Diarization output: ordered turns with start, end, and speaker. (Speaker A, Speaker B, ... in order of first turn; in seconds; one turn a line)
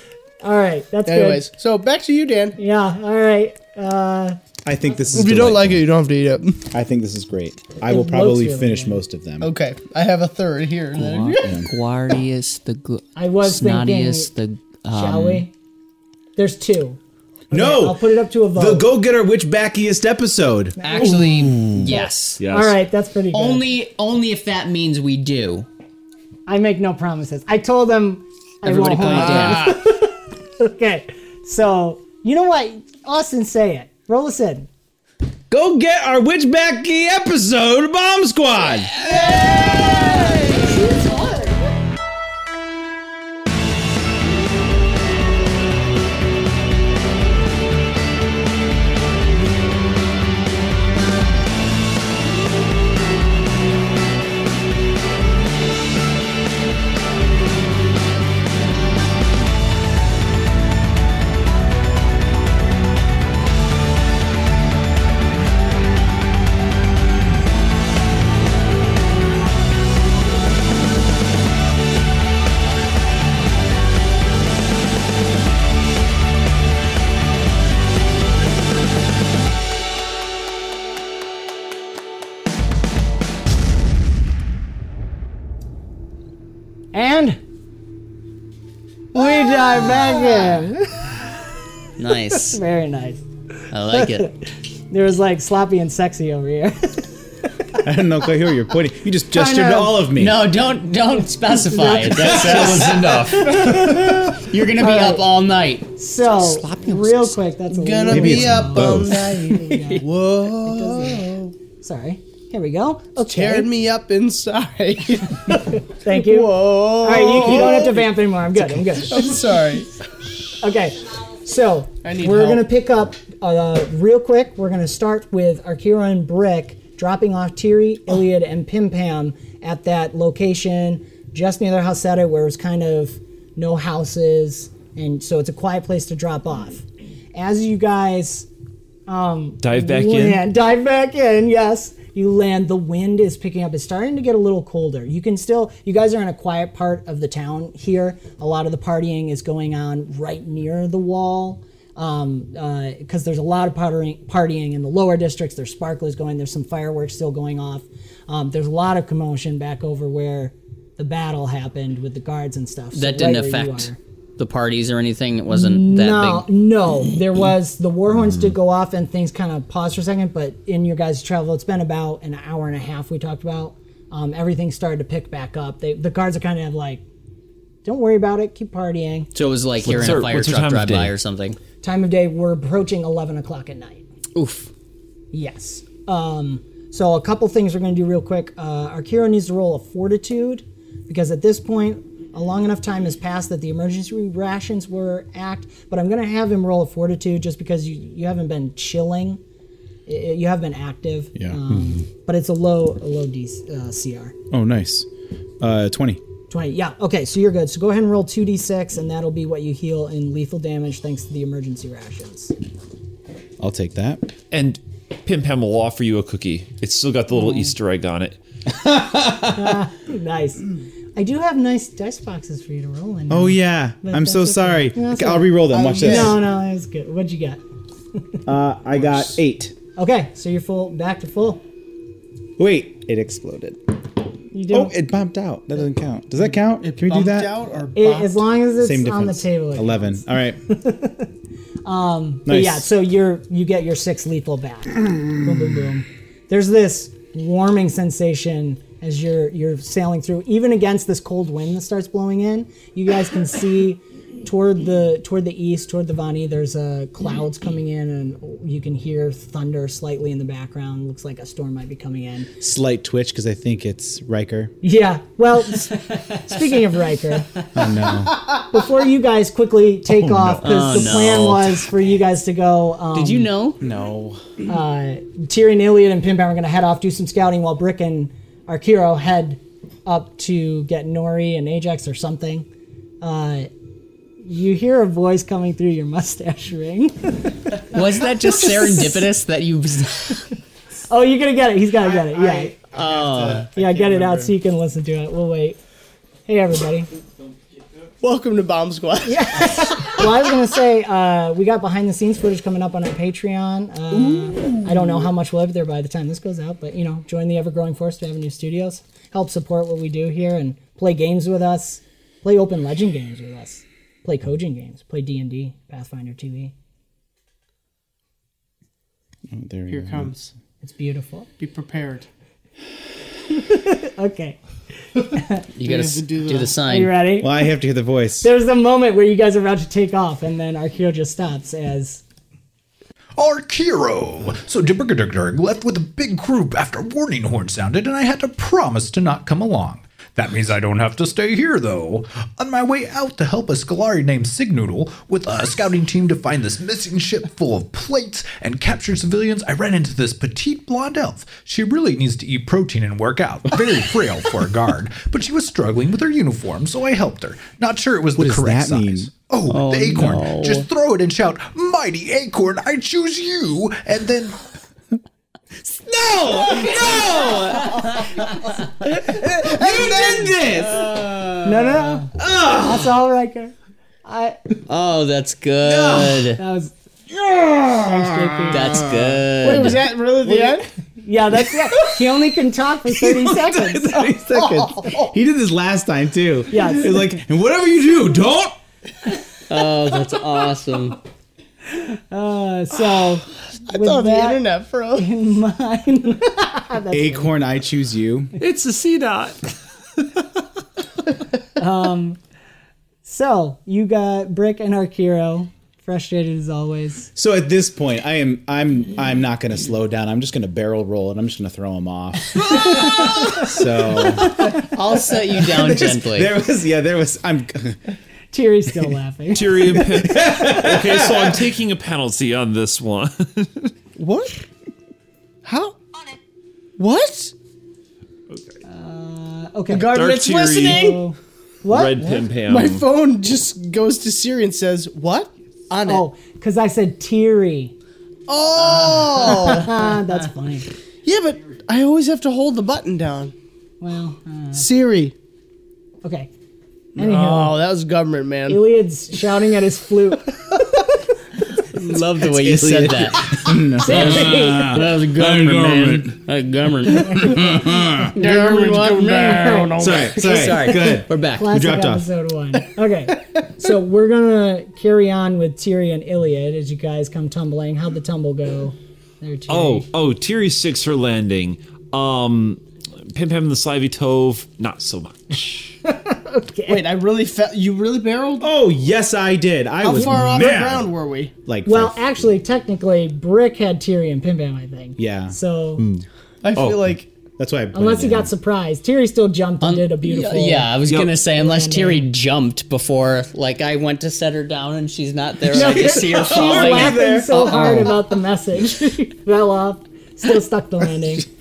Speaker A: 0.4-1.4
Speaker B: 1.1-2.6
Speaker A: 2.6-4.4
Speaker C: 4.7-5.9
Speaker B: 5.2-6.6
Speaker C: 6.7-9.5
Speaker A: 7.9-9.0
Speaker B: 9.4-11.6
Speaker D: 10.9-15.5
Speaker C: 11.4-11.7
Speaker A: 13.2-14.3
Speaker A: 14.9-15.5
Speaker A: 16.4-17.0
Speaker A: 17.5-18.9
Speaker C: 17.5-21.3
Speaker D: 20.8-22.5
Speaker A: 20.8-23.7
Speaker E: 22.4-22.7
Speaker D: 23.3-25.7
Speaker A: 26.5-34.7
Speaker D: 28.6-29.8
Speaker B: 29.1-29.5
Speaker C: 35.5-40.3
Speaker A: 40.4-41.4
Speaker A: 86.9-87.4
Speaker A: 89.1-91.2
Speaker D: 92.0-92.6
Speaker A: 92.3-93.2
Speaker D: 93.7-94.3
Speaker A: 93.9-94.4
Speaker A: 94.9-97.1
Speaker C: 97.8-100.7
Speaker A: 99.3-100.1
Speaker D: 100.1-107.4
Speaker A: 101.2-104.1
Speaker C: 102.2-103.0
Speaker A: 104.8-105.4
Speaker A: 106.0-110.1
Speaker B: 107.7-111.5
Speaker C: 108.1-109.3
Speaker D: 109.6-110.0
Speaker A: 110.6-113.7
Speaker B: 113.3-118.1
Speaker A: 115.5-119.3
Speaker C: 118.6-119.0
Speaker B: 119.1-119.9
Speaker A: 120.6-138.5
Speaker B: 122.0-122.7
Speaker A: 139.1-164.0
Speaker E: 139.6-140.4
Speaker D: 162.9-166.5
Speaker A: 165.5-177.0
Speaker A: 177.8-179.3
Speaker D: 179.3-181.6
Speaker E: 179.8-181.1
Speaker A: 181.8-184.0
Speaker D: 184.3-184.7
Speaker A: 185.3-199.4
Speaker A: 200.1-204.3
Speaker C: 201.4-202.0
Speaker C: 204.5-205.1
Speaker C: 205.6-206.2
Speaker A: 206.5-212.5
Speaker C: 213.6-214.3
Speaker E: 214.5-218.4
Speaker A: 217.4-217.7
Speaker C: 218.7-219.8
Speaker A: 219.5-227.6
Speaker C: 223.3-226.4
Speaker B: 225.7-226.4
Speaker C: 228.4-229.8
Speaker A: 229.9-231.6
Speaker C: 232.6-233.8
Speaker A: 234.5-234.9
Speaker C: 234.7-237.6
Speaker B: 236.7-238.5
Speaker A: 237.9-241.3
Speaker C: 238.8-240.6
Speaker A: 241.8-262.5
Speaker C: 242.4-242.9
Speaker C: 262.6-264.7
Speaker A: 264.8-267.5
Speaker C: 267.7-268.4
Speaker A: 268.7-273.5
Speaker D: 270.6-271.8
Speaker D: 273.1-273.8
Speaker C: 273.8-274.4
Speaker A: 274.7-282.7
Speaker A: 283.2-283.7
Speaker A: 284.4-289.3
Speaker D: 287.9-290.4
Speaker A: 291.1-292.8
Speaker D: 292.9-293.7
Speaker A: 293.7-295.8
Speaker A: 296.5-297.1
Speaker B: 298.2-300.2
Speaker A: 299.2-316.7
Speaker C: 319.5-320.3
Speaker B: 319.9-320.5
Speaker A: 320.8-321.5
Speaker B: 321.6-322.3
Speaker A: 323.5-324.6
Speaker A: 325.2-325.7
Speaker D: 325.7-327.2
Speaker B: 325.8-326.8
Speaker A: 326.8-327.7
Speaker C: 327.4-328.5
Speaker A: 328.4-332.2
Speaker F: 333.4-364.6
Speaker C: 358.4-359.3
Speaker D: 359.7-360.9
Speaker C: 365.8-371.4
Speaker A: 371.6-373.7
Speaker C: 372.3-373.1
Speaker A: 374.2-374.6
Speaker D: 374.9-376.6
Speaker C: 375.8-376.6
Speaker A: 376.6-376.9
Speaker C: 377.3-379.7
Speaker A: 378.0-379.1
Speaker D: 378.7-380.1
Speaker B: 379.6-380.9
Speaker A: 380.4-384.3
Speaker C: 383.1-388.8
Speaker B: 384.8-385.1
Speaker A: 386.7-387.4
Speaker D: 389.7-391.2
Speaker A: 391.9-397.6
Speaker B: 393.9-395.3
Speaker C: 397.1-398.5
Speaker E: 398.6-399.7
Speaker A: 401.8-402.4
Speaker A: 403.2-407.3
Speaker C: 407.3-414.8
Speaker A: 413.0-413.3
Speaker D: 414.8-416.5
Speaker C: 415.6-418.0
Speaker A: 418.5-419.8
Speaker E: 419.5-423.9
Speaker C: 419.7-421.7
Speaker B: 424.2-424.6
Speaker B: 425.6-425.9
Speaker B: 427.0-427.5
Speaker A: 428.8-432.2
Speaker B: 429.9-431.2
Speaker E: 430.1-431.1
Speaker E: 431.9-433.0
Speaker B: 432.2-436.3
Speaker A: 436.1-437.9
Speaker B: 438.5-440.1
Speaker A: 439.3-440.9
Speaker B: 441.2-443.5
Speaker A: 444.0-444.9
Speaker B: 444.8-445.3
Speaker A: 446.2-446.5
Speaker A: 447.2-447.8
Speaker B: 447.2-448.8
Speaker A: 448.7-451.0
Speaker D: 451.9-457.8
Speaker C: 452.4-456.4
Speaker A: 454.0-455.0
Speaker A: 457.2-457.8
Speaker C: 457.3-458.4
Speaker B: 458.3-460.6
Speaker D: 458.4-461.7
Speaker A: 459.3-459.9
Speaker C: 460.0-462.3
Speaker A: 460.8-470.1
Speaker E: 469.7-475.9
Speaker A: 476.0-477.1
Speaker B: 476.9-478.7
Speaker C: 478.6-481.1
Speaker B: 480.0-481.5
Speaker C: 481.6-482.3
Speaker A: 481.9-486.0
Speaker C: 485.2-485.6
Speaker E: 486.0-487.0
Speaker B: 486.6-487.3
Speaker C: 487.6-488.5
Speaker A: 487.9-492.3
Speaker D: 489.8-497.8
Speaker E: 491.1-491.4
Speaker A: 495.7-501.5
Speaker C: 495.7-498.2